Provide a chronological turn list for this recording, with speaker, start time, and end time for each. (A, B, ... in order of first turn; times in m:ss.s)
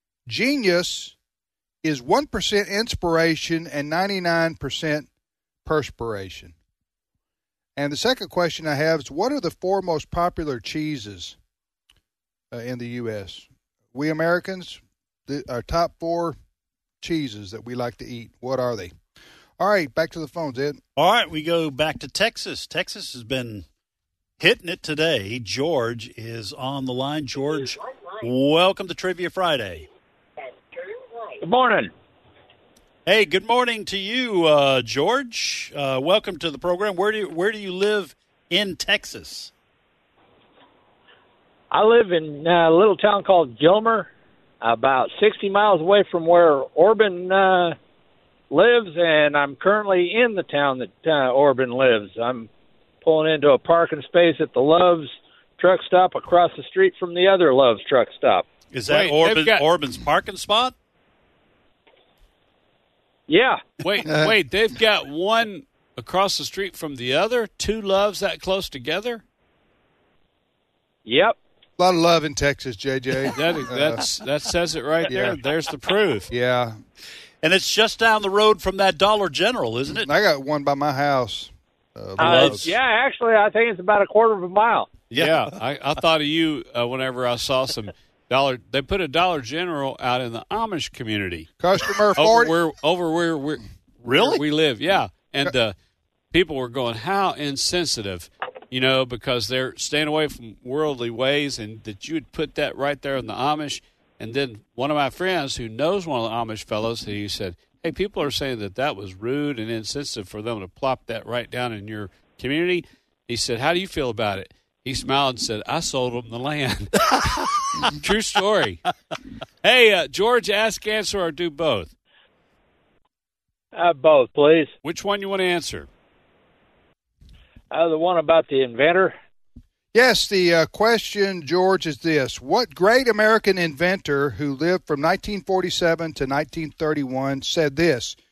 0:00.3-0:01.2 A
0:01.8-0:05.1 A
0:05.6-0:06.6 A
0:07.8-0:11.4 A
0:12.5-0:16.4 A
0:17.0-0:18.9 A
0:19.6-0:20.8 A
0:21.0-0:23.6 B
0:24.4-0:29.9 B
0:31.4-0:31.9 C
0:33.1-0:39.5 B
0:41.7-0:44.1 C
0:44.6-0:47.8 C
0:48.5-0:52.5 C
0:53.0-0:58.4 C
0:58.7-1:00.8 B
0:58.9-0:59.6 D
1:03.3-1:03.6 C
1:03.8-1:09.2 D
1:04.0-1:04.4 A
1:11.1-1:11.4 C
1:11.8-1:14.0 A
1:13.3-1:16.3 D
1:15.1-1:15.4 A
1:16.3-1:16.8 A
1:17.4-1:20.1 B
1:19.9-1:22.7 A
1:22.2-1:22.7 B
1:22.2-1:24.9 C
1:25.1-1:25.5 B
1:25.2-1:31.5 D
1:31.6-1:32.6 A
1:32.2-1:35.8 D
1:34.0-1:34.4 B
1:36.3-1:58.8 D
1:59.6-2:01.9 D
2:03.7-2:04.7 C
2:04.8-2:05.9 D
2:07.7-2:09.2 C
2:09.9-2:18.2 A